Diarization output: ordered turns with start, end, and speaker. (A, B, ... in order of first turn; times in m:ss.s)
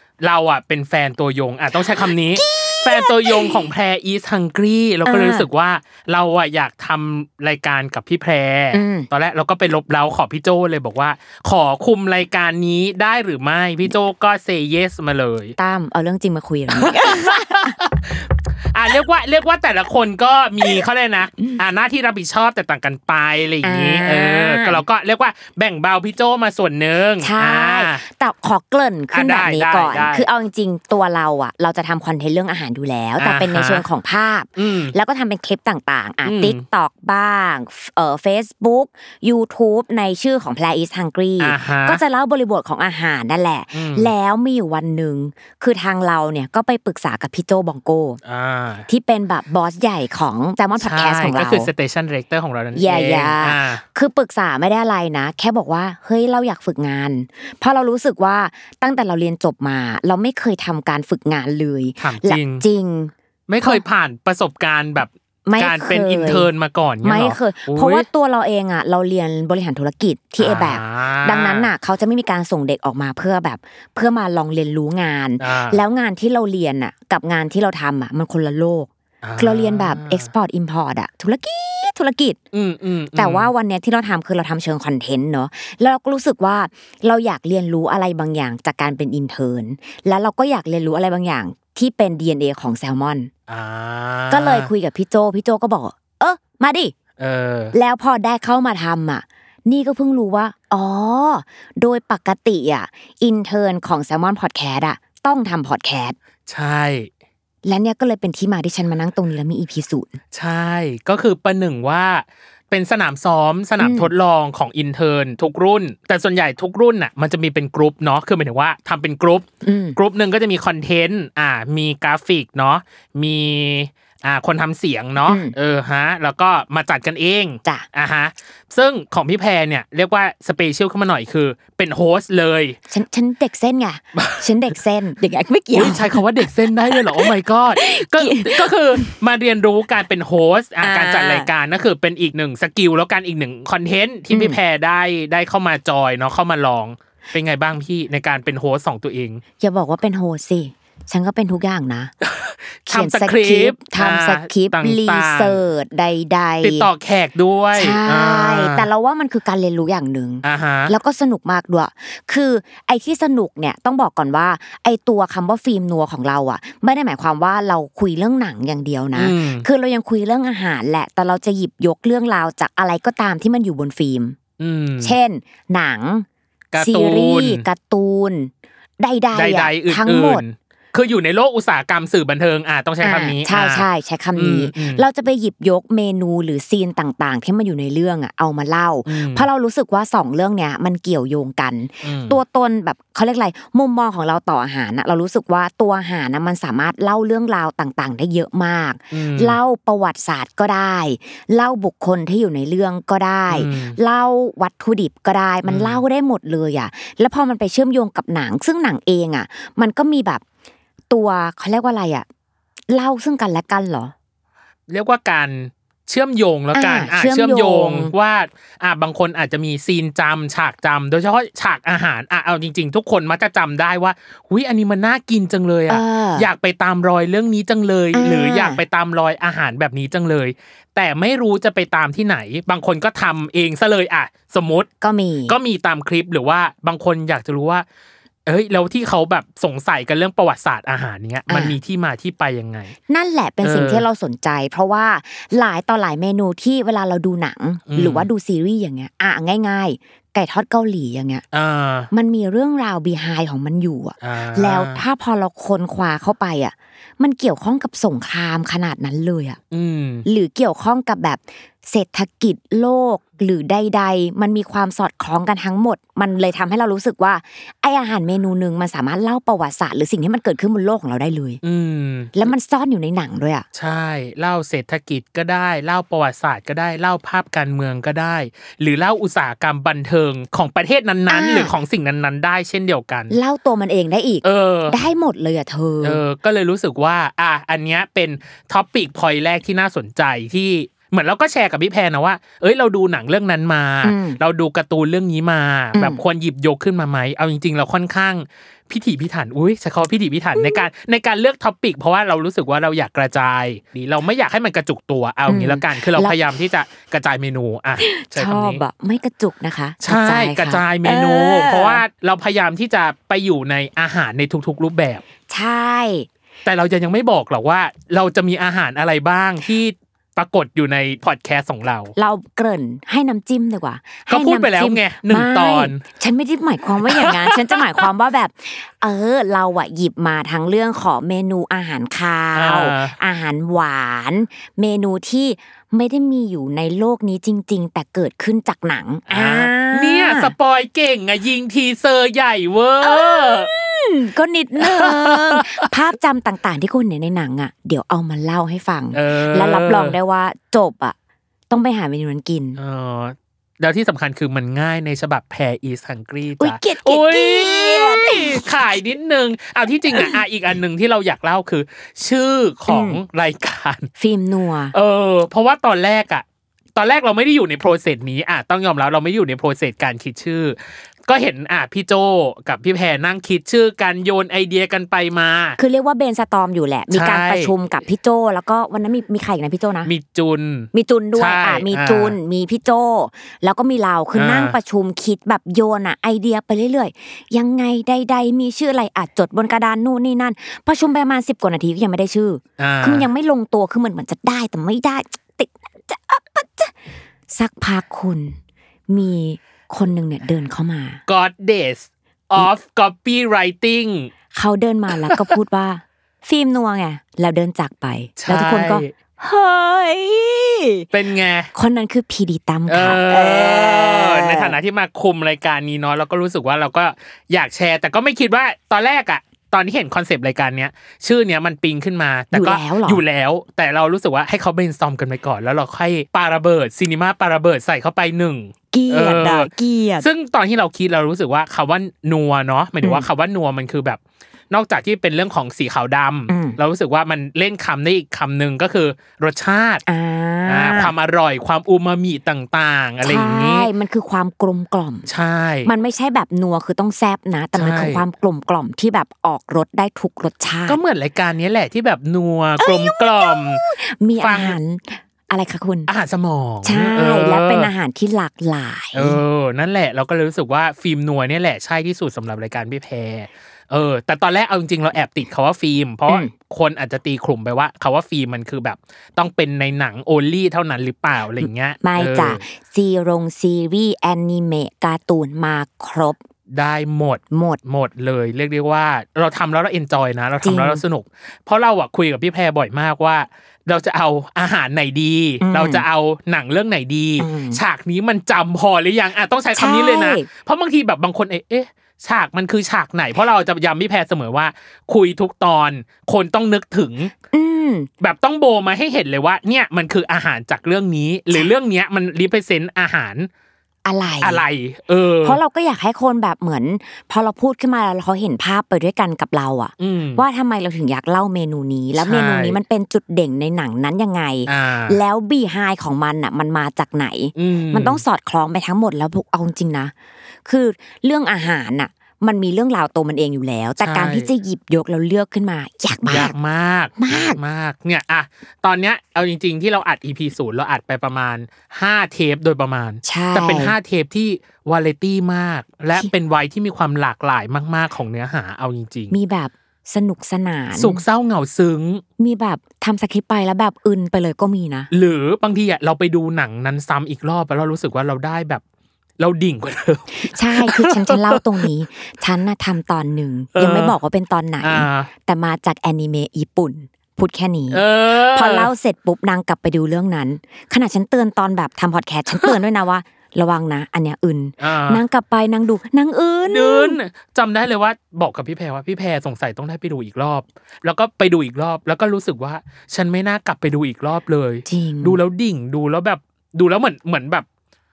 0:00.2-0:15.6 A
0:01.8-0:03.6 B
0:05.0-0:05.5 B
0:08.7-0:09.1 B
0:15.6-0:17.7 B
0:16.8-0:28.0 A
0:23.6-0:24.8 B
0:27.2-0:48.2 B
0:29.1-0:30.3 A
0:33.2-0:33.8 A
0:34.6-0:34.9 A
0:36.2-0:36.6 A
0:41.4-0:42.0 A
0:43.7-0:44.1 A
0:48.3-0:48.9 A
0:48.9-0:51.7 B
0:50.8-0:53.8 A
0:52.7-1:03.8 B
1:02.0-1:02.7 A
1:03.5-1:08.1 A
1:05.4-1:06.5 B
1:07.0-1:22.4 B
1:10.4-1:11.7 A
1:15.4-1:15.8 A
1:19.2-1:20.3 A
1:22.5-1:23.5 A
1:23.2-1:33.3 B
1:33.5-1:34.7 A
1:34.3-1:36.9 B
1:37.2-1:37.8 A
1:37.7-1:46.2 B
1:46.5-1:47.1 A
1:47.6-1:50.1 B
1:50.3-2:12.8 A
1:53.8-1:54.1 B
1:59.6-2:00.0 B
2:05.2-2:05.6 B
2:12.9-2:19.1 B
2:15.7-2:29.4 A
2:20.8-2:21.5 B
2:24.3-2:24.6 B
2:29.6-2:32.1 B
2:32.2-2:35.6 A
2:32.9-2:36.9 B
2:36.6-2:38.9 A
2:37.7-2:54.4 B
2:40.4-2:40.9 A
2:49.2-2:49.7 A
2:54.6-2:55.2 A
2:55.0-2:56.3 B
2:56.7-2:57.6 A
2:56.8-3:00.4 B
2:59.3-3:05.0 A
3:03.0-3:30.4 B
3:09.1-3:09.5 A
3:12.0-3:12.4 A
3:19.1-3:19.6 A
3:23.5-3:24.0 A
3:25.7-3:26.0 A
3:31.1-3:32.3 B
3:32.9-3:34.1 B
3:34.9-3:54.9 A
3:36.7-3:38.1 B
3:45.9-3:46.5 B
3:48.1-3:48.8 B
3:55.0-3:55.6 B
3:55.5-3:57.8 A
3:58.5-4:03.0 A
4:01.5-4:01.8 B
4:03.1-4:11.4 B
4:03.6-4:04.0 A
4:07.9-4:08.3 A
4:11.5-4:12.1 A
4:12.1-4:19.6 B
4:14.2-4:15.0 A
4:19.7-4:20.3 A
4:20.3-4:31.6 B
4:31.6-4:32.5 A
4:32.4-4:33.7 B
4:33.7-4:43.4 A
4:41.3-4:41.8 B
4:43.3-4:46.2 B
4:44.4-4:45.0 A
4:46.0-5:08.8 A
4:54.0-4:54.4 B
4:55.9-4:56.2 B
5:00.6-5:00.8 B
5:05.5-5:06.4 B
5:08.0-5:12.0 B
5:10.0-5:15.2 A
5:15.5-5:16.3 B
5:16.6-5:22.1 A
5:22.2-5:40.5 B
5:24.3-5:26.0 A
5:27.0-5:27.8 A
5:32.6-5:33.1 A
5:39.3-5:43.7 A
5:43.0-5:51.2 B
5:45.0-5:45.6 A
5:49.1-5:50.2 A
5:51.7-5:52.8 B
5:52.8-6:04.1 A
5:56.6-5:58.7 B
6:02.9-6:03.2 B
6:04.2-6:04.9 B
6:04.9-6:06.4 A
6:07.0-6:15.8 A
6:15.8-6:20.1 B
6:17.1-6:17.7 A
6:20.0-6:22.4 A
6:20.9-6:36.9 B
6:24.3-6:24.8 A
6:32.8-6:33.3 A
6:37.5-6:38.6 B
6:39.1-6:41.2 B
6:41.3-6:44.3 A
6:44.5-6:51.1 B
6:48.4-6:49.1 A
6:51.1-6:51.7 A
6:51.7-6:54.8 B
6:52.9-7:14.2 A
7:02.5-7:03.2 B
7:08.9-7:10.3 B
7:14.7-7:20.0 A
7:16.5-7:16.8 B
7:20.1-7:21.1 B
7:20.7-7:23.9 A
7:23.2-7:25.3 B
7:25.3-7:25.9 A
7:25.8-7:31.0 B
7:27.8-7:28.2 A
7:30.9-7:33.8 A
7:32.8-7:36.1 B
7:34.4-7:34.8 A
7:36.1-7:37.9 A
7:36.8-7:39.4 B
7:39.1-7:52.6 A
7:52.0-7:56.4 B
7:56.7-8:17.3 A
7:57.5-7:57.8 B
8:00.6-8:01.0 B
8:05.6-8:06.0 B
8:07.4-8:07.8 B
8:09.8-8:10.5 B
8:17.5-8:18.1 B
8:18.2-8:23.5 A
8:24.0-8:24.6 B
8:24.4-8:25.6 A
8:25.4-8:40.1 B
8:30.0-8:30.4 A
8:32.2-8:32.8 A
8:34.7-8:35.2 A
8:37.6-8:38.2 A
8:40.7-8:46.5 B
8:44.0-8:44.5 A
8:46.2-8:59.4 A
8:47.2-8:47.6 B
8:53.2-8:54.0 B
8:59.3-9:01.2 B
9:01.0-9:02.2 A
9:02.4-9:05.1 B
9:05.1-9:08.8 A
9:09.4-9:11.5 A
9:10.4-9:27.2 B
9:13.8-9:14.2 A
9:14.8-9:15.3 A
9:17.9-9:18.9 A
9:24.8-9:25.2 A
9:26.6-9:37.6 A
9:34.9-9:35.4 B